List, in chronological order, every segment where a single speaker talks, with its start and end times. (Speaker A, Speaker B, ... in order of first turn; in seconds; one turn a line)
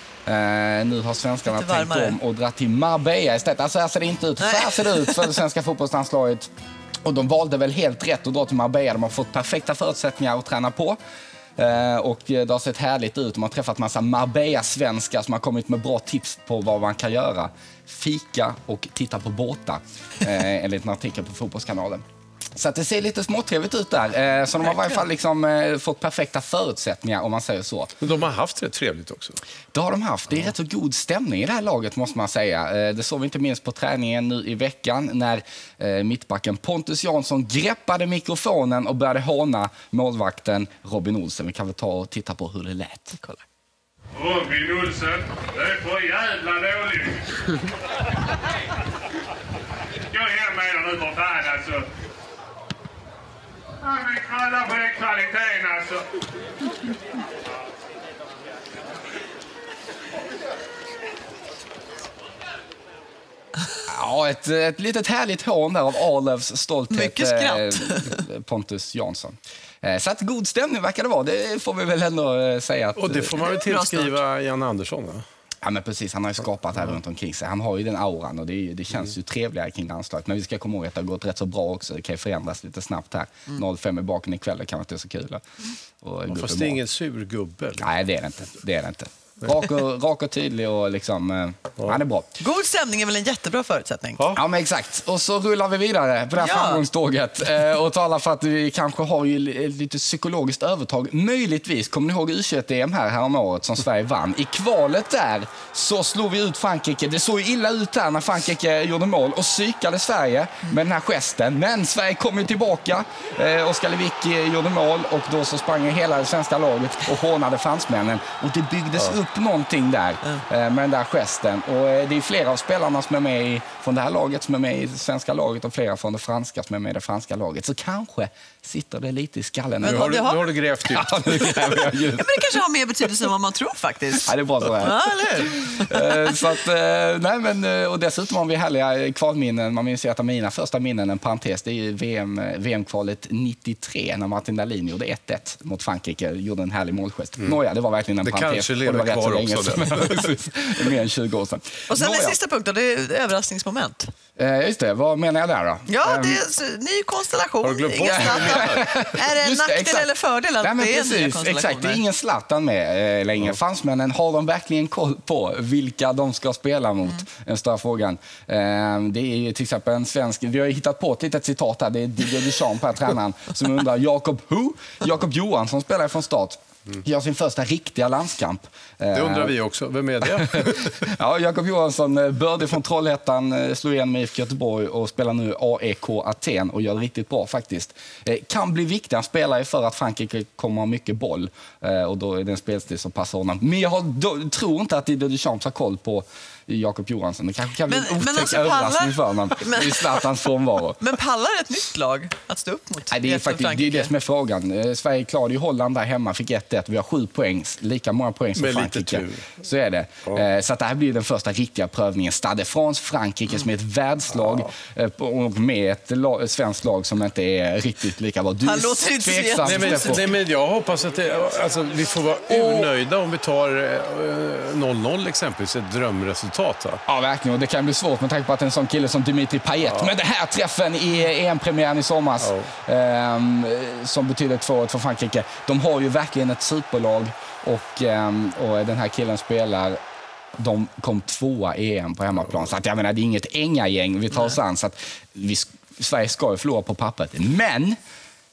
Speaker A: 0.3-6.5
Speaker B: 1.4-2.2
Speaker B: 4.4-5.3
Speaker A: 7.0-11.0
Speaker A: 11.6-22.0
Speaker A: 22.6-27.9
Speaker C: 28.0-29.4
Speaker A: 29.7-43.2
Speaker D: 44.1-47.4
Speaker D: 50.1-51.9
Speaker D: 53.8-56.1
Speaker A: 63.9-73.5
Speaker B: 66.9-68.2
Speaker C: 73.0-75.2
Speaker B: 73.4-74.2
Speaker A: 75.6-86.8
Speaker C: 86.3-87.9
Speaker A: 87.8-92.3
Speaker B: 92.4-94.2
Speaker A: 94.3-130.3
Speaker B: 96.4-96.8
Speaker B: 129.8-130.6
Speaker C: 129.8-132.0
Speaker A: 130.9-132.5
Speaker B: 132.2-136.5
Speaker A: 134.2-152.4
Speaker C: 148.2-150.3
Speaker B: 151.9-154.1
Speaker A: 154.4-156.4
Speaker B: 155.9-162.0
Speaker C: 157.6-158.9
Speaker A: 158.1-160.1
Speaker A: 160.6-179.6
Speaker C: 179.1-181.0
Speaker A: 180.4-201.0
Speaker B: 197.9-200.3
Speaker B: 201.0-204.1
Speaker A: 203.1-220.3
Speaker C: 208.6-209.6
Speaker B: 218.6-220.3
Speaker C: 219.6-227.0
Speaker A: 227.1-240.0
Speaker C: 232.4-232.7
Speaker A: 240.6-248.0
Speaker B: 244.3-244.6